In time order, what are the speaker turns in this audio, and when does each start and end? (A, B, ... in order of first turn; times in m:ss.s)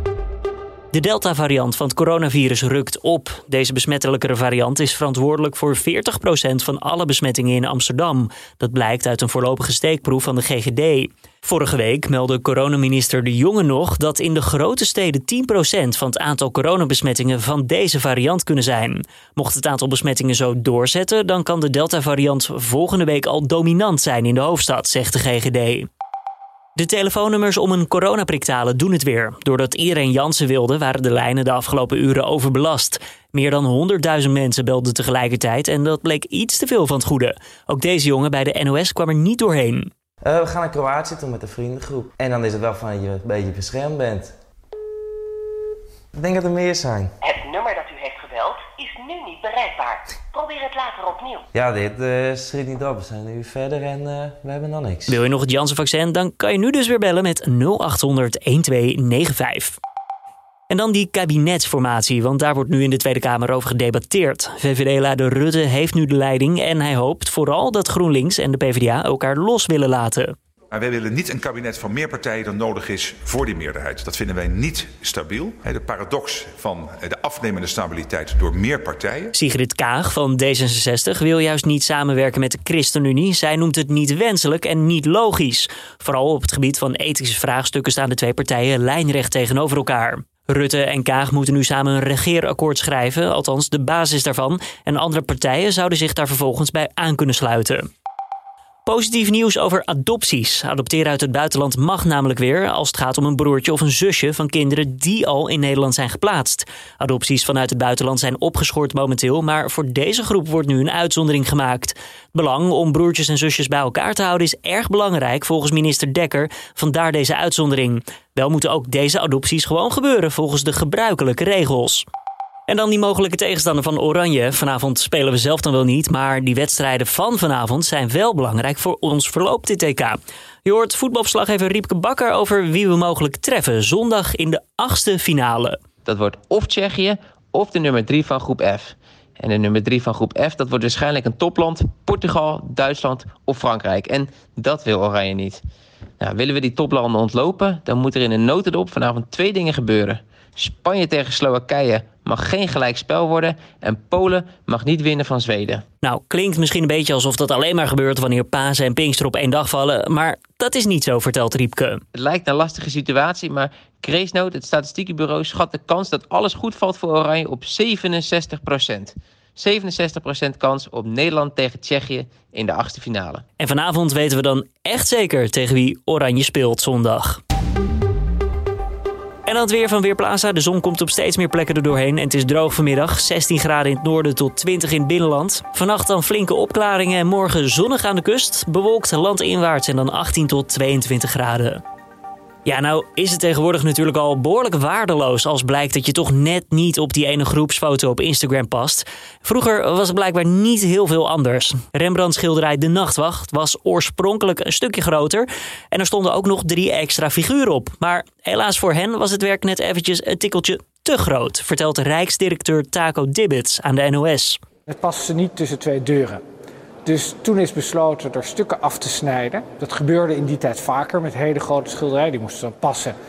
0:00.9-0:25.9 A
0:26.8-0:39.9 A
0:40.2-0:44.3 B
0:46.1-0:47.1 B
0:47.2-0:51.4 C
0:51.5-0:55.2 B
0:55.1-0:59.8 A
1:00.7-1:10.3 A
1:10.7-1:19.3 D
1:19.3-1:37.9 A
1:38.8-2:02.0 A
2:02.7-2:15.8 A
2:16.0-2:25.6 E
2:26.2-2:35.8 E
2:36.0-2:42.0 A
2:42.1-2:53.4 E
2:53.6-2:57.4 A
2:59.4-3:11.8 A
3:12.6-3:34.6 A
3:34.9-3:36.4 F
3:37.0-3:43.1 F